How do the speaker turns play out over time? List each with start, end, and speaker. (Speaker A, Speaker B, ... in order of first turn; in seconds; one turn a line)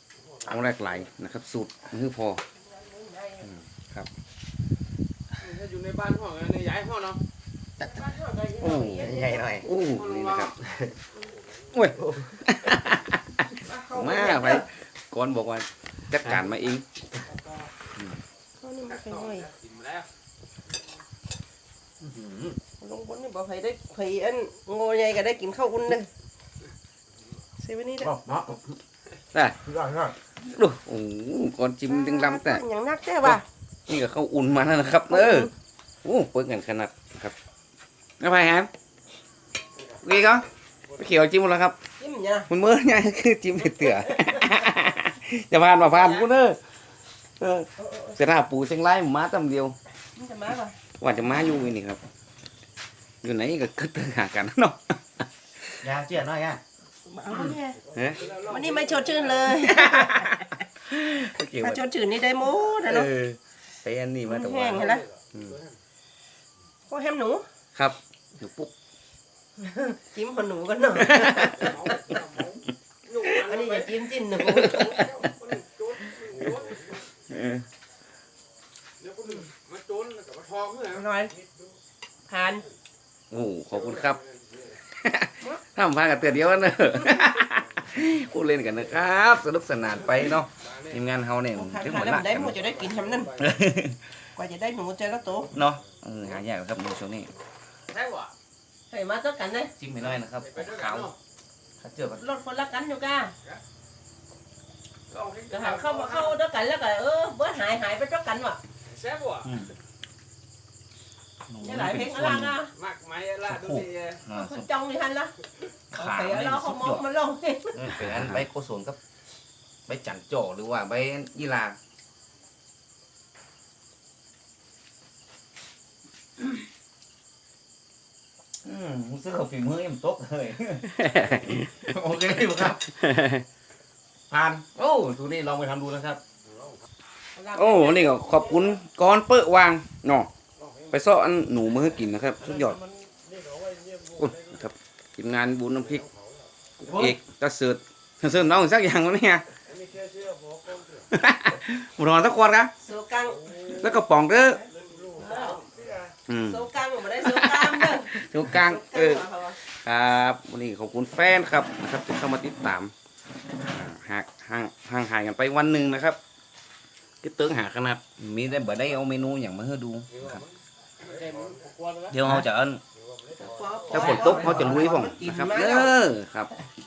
Speaker A: 0.5-2.4
Speaker B: 2.6-3.5
Speaker A: 3.4-4.1
Speaker C: 5.4-7.2
Speaker B: 7.8-9.6
Speaker A: 8.6-10.6
Speaker D: 8.8-9.7
Speaker C: 9.9-10.5
Speaker D: 10.6-10.9
Speaker A: 11.7-16.9
Speaker D: 12.0-12.3
Speaker B: 13.6-14.6
Speaker B: 18.6-19.5
Speaker C: 19.0-20.1
Speaker B: 22.8-26.1
Speaker B: 27.6-28.2
Speaker C: 28.1-28.6
Speaker C: 29.6-30.1
Speaker A: 30.4-32.6
Speaker B: 31.9-33.4
Speaker A: 33.2-35.5
Speaker B: 35.1-35.5
Speaker A: 36.0-37.3
Speaker A: 38.2-38.7
Speaker A: 40.0-41.8
Speaker B: 42.0-42.5
Speaker A: 42.5-46.6
Speaker A: 47.4-49.8
Speaker B: 47.8-48.2
Speaker B: 50.1-50.8
Speaker A: 51.0-52.0
Speaker A: 53.2-55.9
Speaker D: 55.8-56.6
Speaker B: 57.1-60.4
Speaker A: 57.9-58.2
Speaker C: 58.0-59.4
Speaker A: 59.5-61.9
Speaker B: 61.6-63.1
Speaker A: 62.5-65.6
Speaker B: 64.3-65.0
Speaker C: 64.8-65.7
Speaker B: 66.9-67.5
Speaker A: 67.8-68.7
Speaker B: 69.8-71.7
Speaker A: 71.0-71.8
Speaker C: 71.5-73.9
Speaker B: 73.3-74.9
Speaker A: 74.3-75.2
Speaker C: 74.7-77.0
Speaker A: 77.3-77.7
Speaker C: 79.0-81.0
Speaker B: 80.9-81.3
Speaker B: 82.3-82.6
Speaker A: 83.3-84.2
Speaker A: 84.8-92.6
Speaker B: 91.5-93.3
Speaker C: 92.7-93.4
Speaker A: 93.4-94.0
Speaker B: 94.3-95.5
Speaker A: 95.5-97.3
Speaker C: 97.9-98.3
Speaker B: 98.9-99.7
Speaker A: 99.8-101.1
Speaker C: 100.3-101.1
Speaker A: 101.8-102.2
Speaker B: 102.2-103.3
Speaker C: 105.1-106.3
Speaker B: 105.5-108.6
Speaker C: 108.9-109.5
Speaker A: 109.5-109.7
Speaker A: 111.5-112.6
Speaker B: 111.6-112.7
Speaker C: 112.7-114.2
Speaker A: 113.4-114.7
Speaker B: 114.3-115.3
Speaker A: 115.9-117.1
Speaker B: 115.9-117.9
Speaker A: 117.8-119.0
Speaker A: 119.9-121.8
Speaker A: 128.6-132.9
Speaker D: 130.9-131.8
Speaker D: 132.9-133.4
Speaker A: 134.3-136.2
Speaker B: 137.3-138.8
Speaker A: 137.5-140.3
Speaker A: 140.9-142.8
Speaker C: 143.6-143.9
Speaker A: 144.2-146.1
Speaker A: 146.8-149.5
Speaker C: 149.8-150.9
Speaker A: 151.1-152.7
Speaker B: 152.8-153.5
Speaker A: 153.5-154.6
Speaker C: 155.1-155.3
Speaker B: 155.1-155.7
Speaker A: 156.3-162.9
Speaker B: 156.4-159.6
Speaker A: 163.7-166.2
Speaker A: 167.2-170.4
Speaker C: 171.1-172.1
Speaker A: 172.1-172.8
Speaker B: 173.4-175.9
Speaker D: 173.9-174.4
Speaker A: 173.9-176.5